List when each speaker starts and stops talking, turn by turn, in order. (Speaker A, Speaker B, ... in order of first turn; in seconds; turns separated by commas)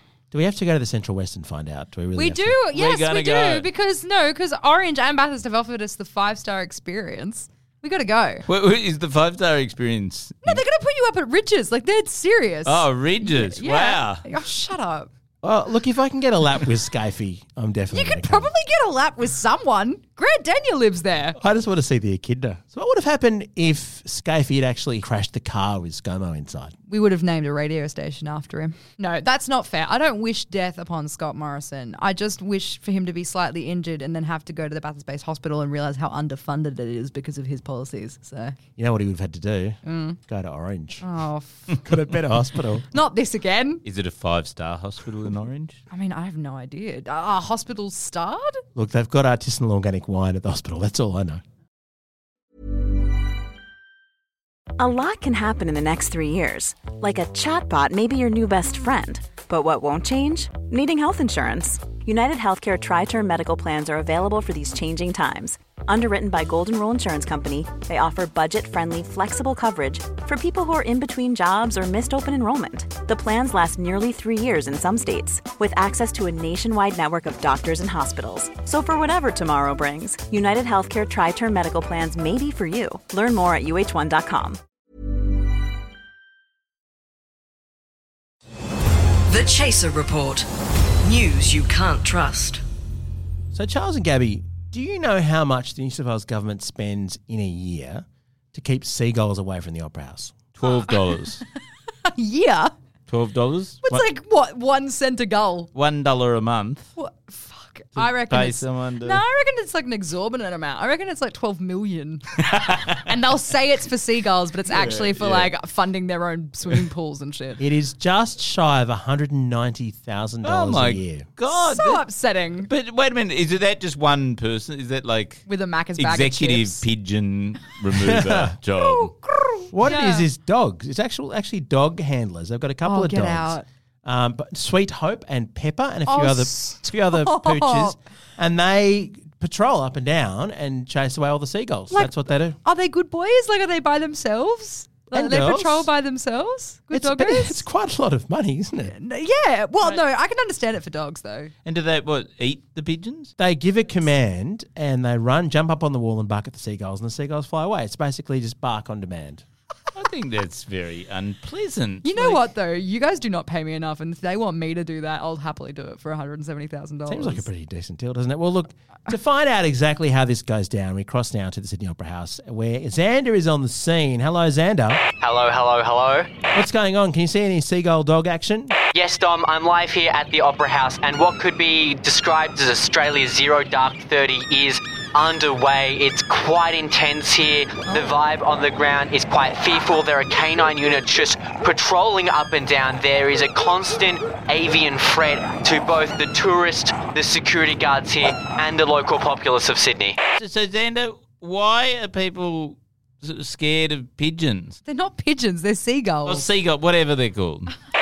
Speaker A: 0.3-2.6, Speaker B: 2.1-8.4, Speaker C: 2.7-3.7, Speaker C: 8.5-10.6, Speaker B: 10.4-15.1, Speaker C: 12.7-14.3, Speaker A: 15.4-18.5, Speaker B: 17.9-21.4, Speaker A: 21.4-26.7, Speaker B: 26.9-38.5, Speaker A: 38.8-41.0, Speaker B: 39.9-40.2, Speaker B: 41.0-41.8, Speaker A: 41.8-42.9, Speaker B: 42.9-43.8, Speaker C: 43.9-45.8, Speaker B: 45.9-48.6, Speaker A: 48.8-51.4, Speaker D: 54.8-84.6, Speaker E: 89.3-90.5, Speaker E: 91.0-92.6, Speaker A: 93.5-100.3, Speaker C: 100.5-101.4, Speaker B: 100.6-101.0, Speaker B: 102.1-102.7, Speaker C: 103.1-104.0, Speaker B: 103.8-105.7, Speaker C: 105.8-106.9, Speaker B: 107.0-117.6, Speaker C: 108.0-109.2, Speaker C: 114.7-115.5, Speaker A: 117.6-121.3, Speaker C: 120.5-122.1, Speaker B: 121.5-122.7, Speaker C: 122.6-125.5, Speaker B: 125.5-126.8, Speaker C: 126.0-129.1, Speaker A: 128.0-128.5, Speaker B: 128.8-130.3, Speaker A: 129.7-142.6, Speaker B: 132.8-133.6, Speaker B: 136.1-138.0, Speaker B: 141.9-147.7, Speaker A: 145.1-145.9, Speaker A: 146.9-148.9, Speaker B: 148.9-151.5, Speaker C: 151.7-153.3, Speaker A: 153.4-159.4, Speaker C: 159.9-162.5, Speaker B: 162.0-167.5, Speaker A: 167.1-175.0, Speaker F: 175.2-176.3, Speaker A: 176.5-178.7, Speaker F: 178.9-200.2, Speaker C: 200.4-204.8, Speaker B: 204.8-206.5, Speaker C: 206.3-207.7